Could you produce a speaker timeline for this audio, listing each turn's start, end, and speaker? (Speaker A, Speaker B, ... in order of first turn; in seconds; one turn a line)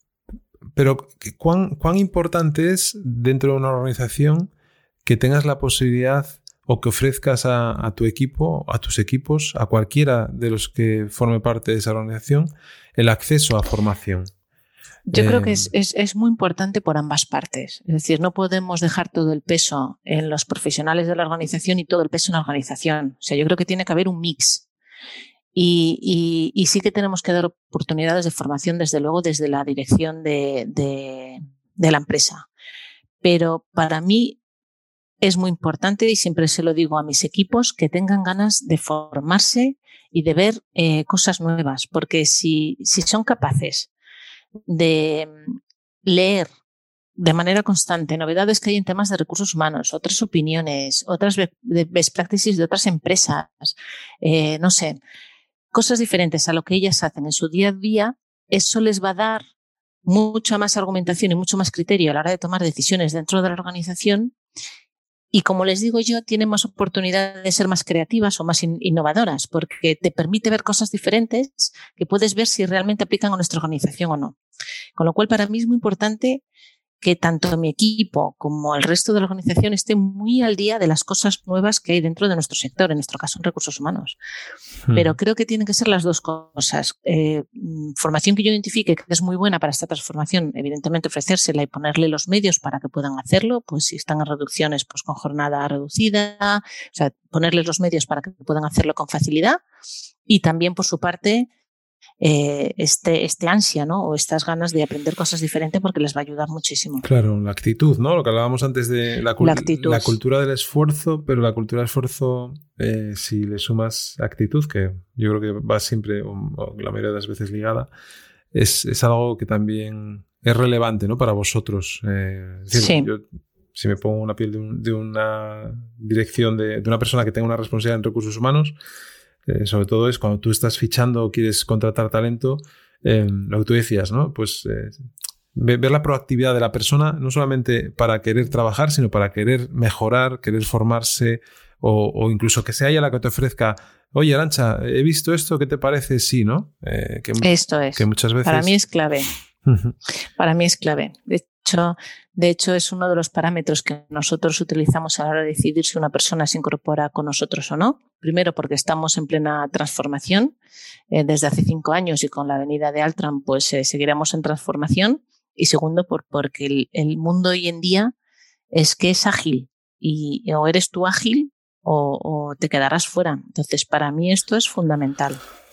Speaker A: 0.8-4.5
Speaker A: 5.0-14.3
Speaker B: 15.1-24.7
Speaker A: 15.1-15.7
Speaker B: 25.5-32.5
Speaker B: 33.2-34.4
Speaker B: 35.2-43.9
Speaker B: 44.7-45.4
Speaker B: 46.0-46.5
Speaker B: 47.2-55.0
Speaker B: 55.7-59.4
Speaker B: 60.0-64.3
Speaker B: 65.3-74.4
Speaker B: 75.0-76.4
Speaker B: 77.0-84.2
Speaker A: 84.9-85.1
Speaker B: 85.0-99.6
Speaker B: 100.3-101.5
Speaker B: 102.2-107.0
Speaker A: 107.0-117.9
Speaker B: 109.4-110.2
Speaker A: 118.5-128.8
Speaker B: 122.7-123.1
Speaker A: 129.5-148.7
Speaker B: 147.4-149.3
Speaker A: 149.7-149.9
Speaker B: 150.4-160.6
Speaker B: 161.1-168.1
Speaker B: 168.7-175.4